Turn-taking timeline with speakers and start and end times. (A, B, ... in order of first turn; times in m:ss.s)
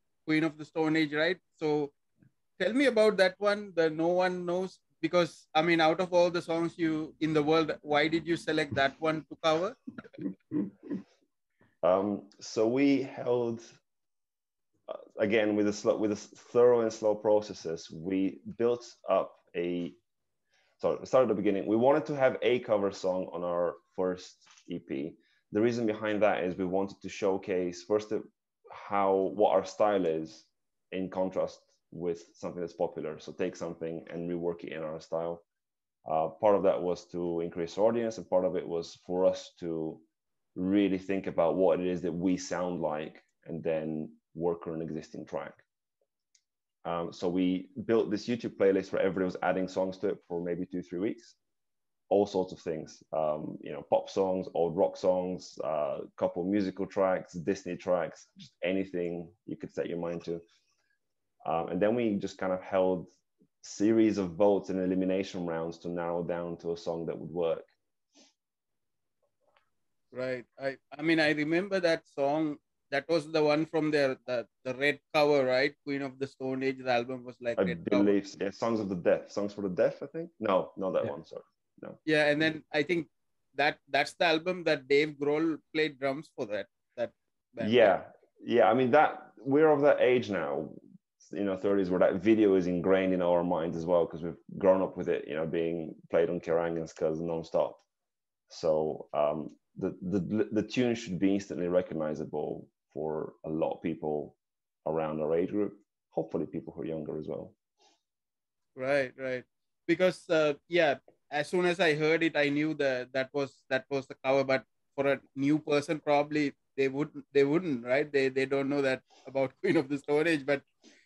0:00.2-0:01.9 A
0:02.6-0:09.8 A
0:11.8-0:13.7 B
0:14.9-0:20.0 B
0:20.8-0:35.4 B
0:36.0-0:40.0 B
0:40.5-0:45.6 B
0:46.8-0:51.4 B
0:52.1-1:00.4 B
1:01.4-1:03.1 B
1:03.6-1:07.7 B
1:10.1-1:18.1 A
1:17.6-1:22.0 B
1:22.0-1:27.9 A
1:27.6-1:37.8 B
1:38.5-1:47.5 B
1:48.8-2:00.7 A